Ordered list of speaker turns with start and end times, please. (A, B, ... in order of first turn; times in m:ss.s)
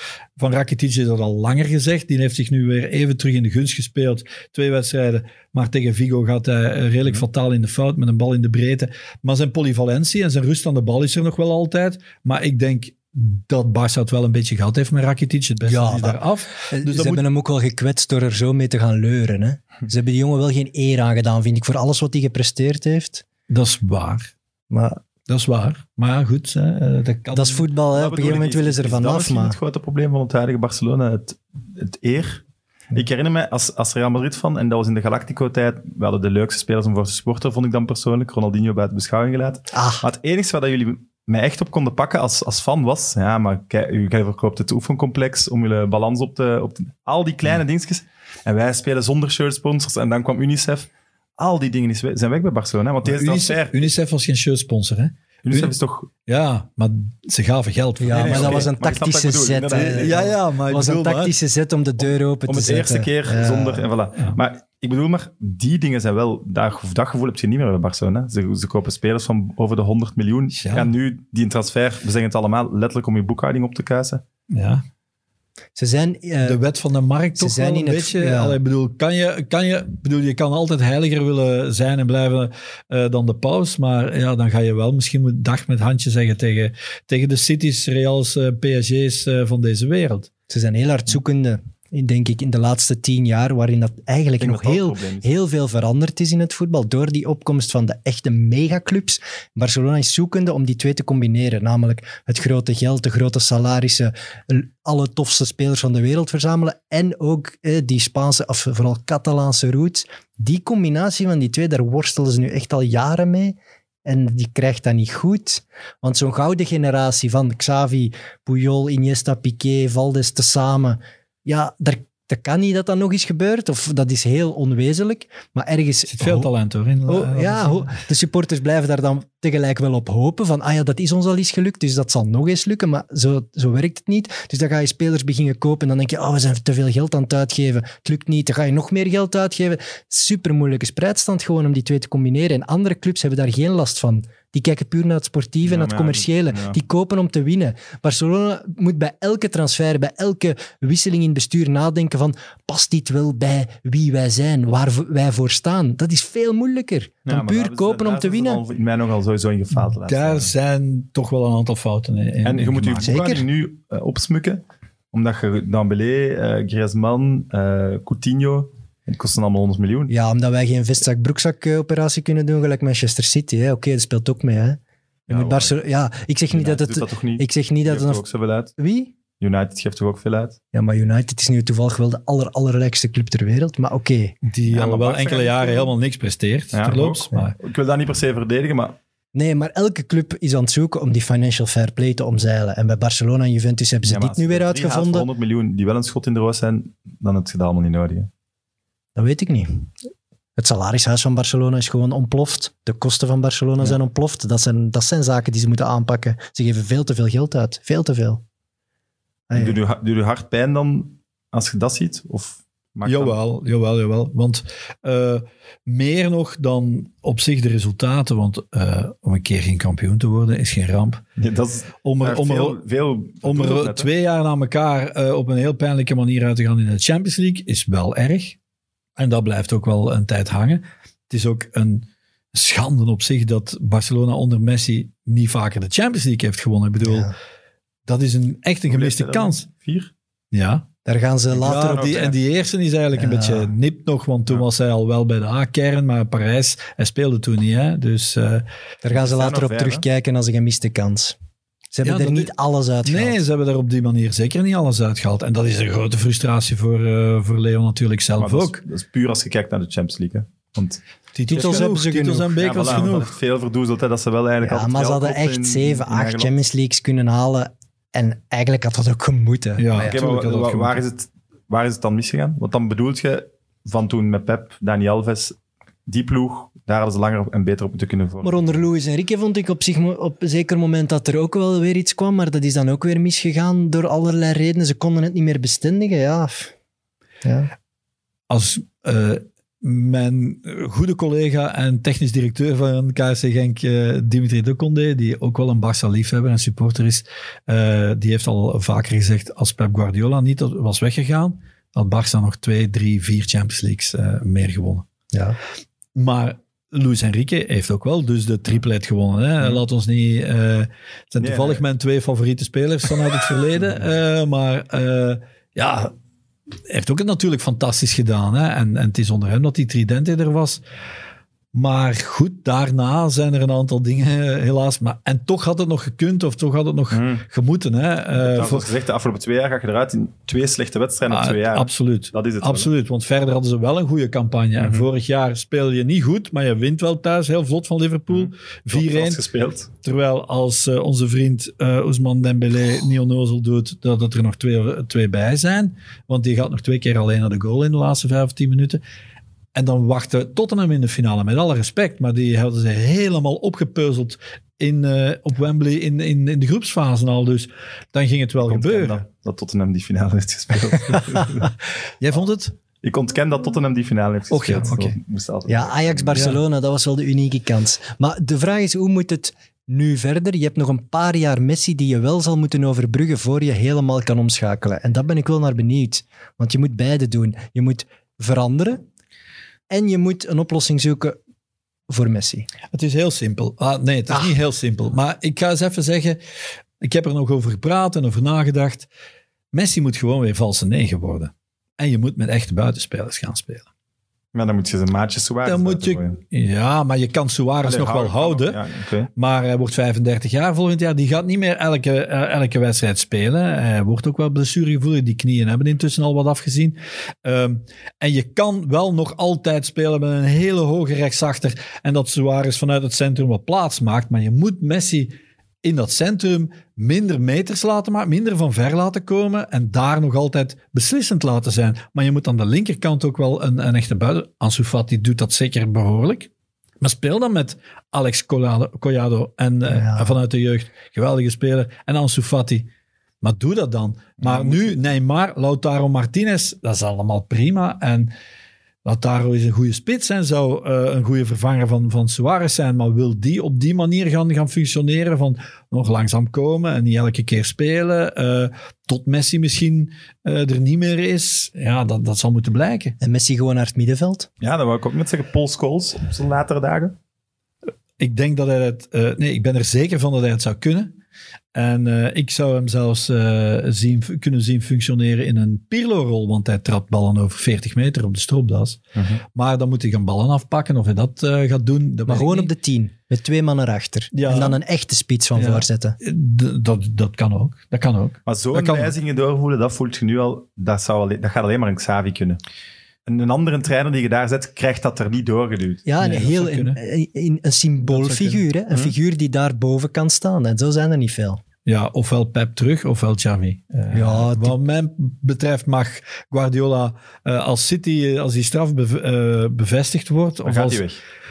0:00.4-0:17.2 A
0:15.6-0:23.2 B
0:23.5-0:24.3 A
0:24.7-0:25.0 B
0:25.3-0:27.7 A
0:27.3-0:29.6 B
0:27.9-0:53.9 C
0:39.7-0:40.0 B
0:53.0-0:55.8 A
0:55.4-0:56.1 C
0:56.3-0:58.7 A
0:58.0-1:03.9 B
0:58.2-1:00.4 C
0:59.7-1:01.3 A
1:02.5-1:14.2 C
1:10.5-1:10.9 A
1:14.5-1:14.8 A
1:15.8-1:16.6 B
1:16.4-1:30.3 A
1:17.4-1:18.6 B
1:30.5-2:06.5 B
1:34.4-1:35.3 C
2:06.1-2:08.0 A
2:07.1-2:38.6 B
2:25.6-2:26.8 C
2:37.3-2:40.5 C
2:40.0-2:43.1 A
2:42.4-2:50.1 C
2:43.0-2:43.4 B
2:50.1-2:58.2 B
2:55.3-2:55.8 C
2:56.5-2:58.7 C
2:58.8-2:59.1 B
2:59.4-3:00.6 C
3:00.7-3:04.4 B
3:04.4-3:07.6 A
3:04.7-3:05.9 C
3:06.7-3:09.0 C
3:09.4-3:15.3 B
3:14.0-3:18.3 C
3:19.2-3:19.9 B
3:20.6-3:28.4 B
3:29.5-3:29.8 B
3:29.6-3:33.4 C
3:33.0-3:41.2 A
3:41.4-3:44.1 C
3:42.0-3:42.8 A
3:43.4-3:48.6 A
3:49.2-3:57.3 A
3:57.0-3:57.3 B
3:58.1-3:59.7 A
3:58.9-4:00.1 C
4:00.5-4:00.9 A
4:01.0-4:02.3 B
4:01.5-4:08.6 A
4:02.0-4:02.4 C
4:03.1-4:03.7 B
4:09.0-4:11.4 B
4:09.1-4:10.0 C
4:11.9-4:13.4 B
4:12.0-4:12.5 A
4:13.0-4:18.8 A
4:18.4-4:21.9 C
4:21.4-4:23.3 A
4:21.5-4:22.9 B
4:22.6-4:26.5 C
4:24.6-4:30.2 B
4:29.8-4:31.0 A
4:30.0-4:38.7 C
4:38.4-4:46.7 B
4:47.4-4:47.7 B
4:48.5-5:05.1 A
5:05.3-5:05.6 B
5:06.2-5:16.1 A
5:11.4-5:11.8 C
5:16.9-5:20.8 A
5:21.7-5:28.9 A
5:27.1-5:27.4 C
5:28.4-5:32.9 C
5:31.3-5:39.4 A
5:34.8-5:35.1 C
5:38.3-5:39.9 C
5:40.0-5:49.0 A
5:49.8-5:59.2 A
5:58.7-6:01.7 C
6:02.2-6:02.8 A
6:03.0-6:06.4 C
6:04.5-6:05.2 A
6:05.7-6:19.0 B
6:06.4-6:06.6 A
6:19.9-6:21.4 B
6:22.1-6:22.7 B
6:22.9-6:26.4 A
6:27.0-6:29.1 A
6:29.7-6:33.8 A
6:34.5-6:36.4 C
6:35.6-6:38.8 A
6:37.8-6:39.3 C
6:39.4-7:06.5 A
7:07.0-7:12.9 A
7:09.9-7:10.3 B
7:13.4-7:18.3 A
7:14.4-7:15.0 C
7:19.0-7:33.2 A
7:33.2-7:34.5 B
7:34.6-7:37.2 C
7:38.2-7:41.1 A
7:41.8-7:49.0 A
7:49.2-7:49.4 C
7:49.6-7:52.7 A
7:52.3-7:56.2 B
7:54.3-7:54.8 A
7:55.6-7:59.1 A
7:58.5-8:02.6 C
8:03.3-8:06.0 C
8:06.1-8:11.6 B
8:06.2-8:07.0 A
8:08.0-8:08.6 A
8:11.9-8:21.0 A
8:14.1-8:14.8 B
8:20.6-8:21.2 C